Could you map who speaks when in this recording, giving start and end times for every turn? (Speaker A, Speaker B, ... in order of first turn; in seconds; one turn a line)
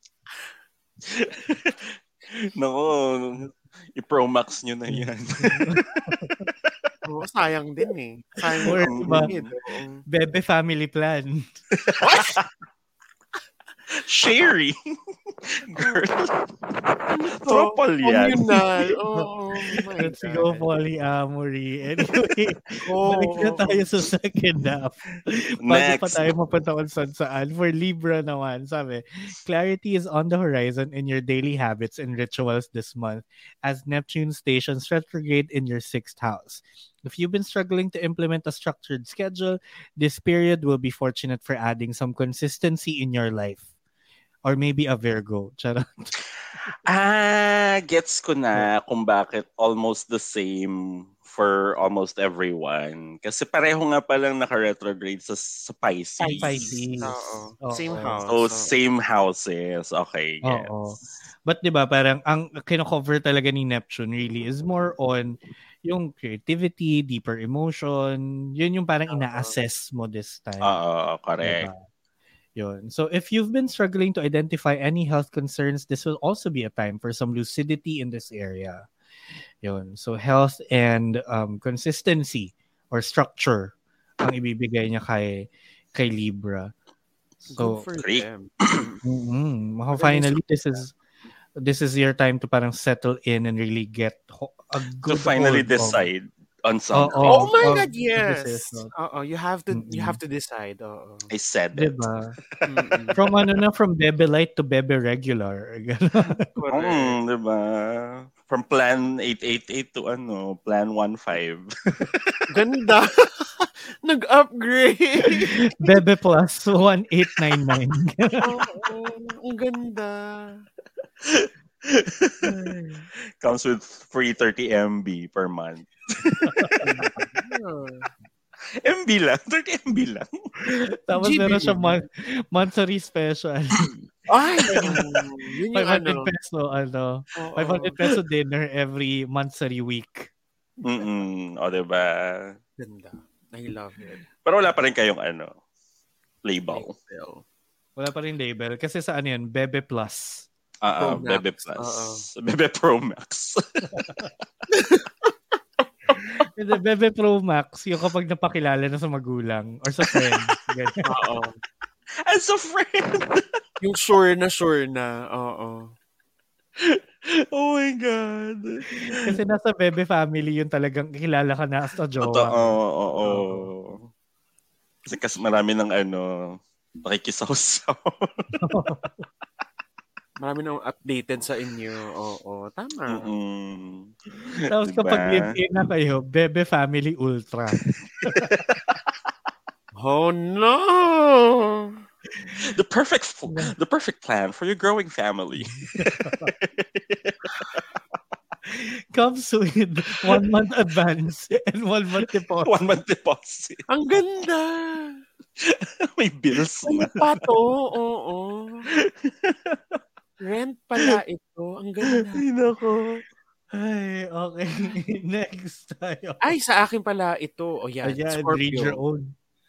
Speaker A: 1.0-6.9
Speaker B: 4.9-6.5
Speaker C: 7.0-10.0
Speaker A: 8.5-9.5
Speaker B: 8.6-9.3
Speaker B: 10.1-11.5
Speaker A: 11.7-12.4
Speaker C: 12.0-12.4
Speaker A: 13.9-14.8
Speaker A: 15.3-18.9
Speaker C: 17.1-20.7
Speaker B: 20.0-43.6
Speaker C: 22.8-23.8
Speaker A: 25.6-26.3
Speaker B: 44.4-46.1
Speaker A: 46.9-56.8
Speaker C: 56.2-58.7
Speaker B: 56.3-58.2
Speaker A: 58.2-60.7
Speaker B: 60.4-70.8
Speaker C: 69.1-69.5
Speaker A: 70.6-71.7
Speaker B: 71.4-71.8
Speaker B: 72.6-78.9
Speaker B: 79.6-86.7
Speaker B: 87.5-87.8
Speaker C: 87.5-89.0
Speaker A: 88.0-88.9
Speaker B: 89.0-90.9
Speaker C: 90.0-90.4
Speaker B: 91.6-96.1
Speaker A: 95.0-97.6
Speaker B: 96.9-98.9
Speaker C: 97.2-101.3
Speaker B: 99.7-100.2
Speaker A: 101.3-102.0
Speaker B: 101.7-102.3
Speaker A: 102.6-103.1
Speaker C: 102.7-103.2
Speaker B: 103.1-106.4
Speaker C: 106.5-107.2
Speaker A: 106.7-112.5
Speaker C: 112.5-115.6
Speaker B: 115.2-118.5
Speaker C: 118.4-120.7
Speaker A: 121.2-122.5
Speaker C: 122.5-123.0
Speaker A: 123.4-126.9
Speaker B: 126.5-126.8
Speaker C: 126.8-128.1
Speaker A: 128.8-130.3
Speaker B: 130.7-133.9
Speaker C: 131.2-132.0
Speaker C: 134.3-136.3
Speaker B: 134.7-135.0
Speaker A: 134.7-135.1
Speaker B: 135.7-140.3
Speaker C: 137.3-138.0
Speaker A: 140.8-142.6
Speaker C: 142.8-144.2
Speaker A: 144.4-145.6
Speaker A: 146.4-146.9
Speaker C: 146.7-147.4
Speaker B: 147.9-150.5
Speaker A: 150.8-154.0
Speaker C: 151.0-152.2
Speaker B: 153.9-154.3
Speaker C: 154.7-155.2
Speaker B: 156.5-161.1
Speaker C: 161.0-161.5
Speaker A: 162.2-163.6
Speaker C: 163.8-165.9
Speaker A: 166.8-169.2
Speaker B: 169.1-173.7
Speaker A: 172.2-174.0
Speaker A: 175.1-178.6
Speaker B: 178.6-179.2
Speaker C: 180.4-183.3
Speaker A: 183.1-185.6
Speaker B: 184.7-188.5
Speaker A: 187.8-189.1
Speaker C: 189.9-192.0
Speaker A: 192.6-197.8
Speaker B: 195.9-196.5
Speaker B: 198.7-202.8
Speaker A: 202.6-203.8
Speaker C: 203.9-205.2
Speaker A: 205.6-207.2
Speaker C: 206.8-208.9
Speaker A: 208.9-210.0
Speaker C: 210.4-212.5
Speaker A: 212.3-213.2
Speaker B: 213.7-216.4
Speaker C: 216.4-219.0
Speaker B: 218.0-219.3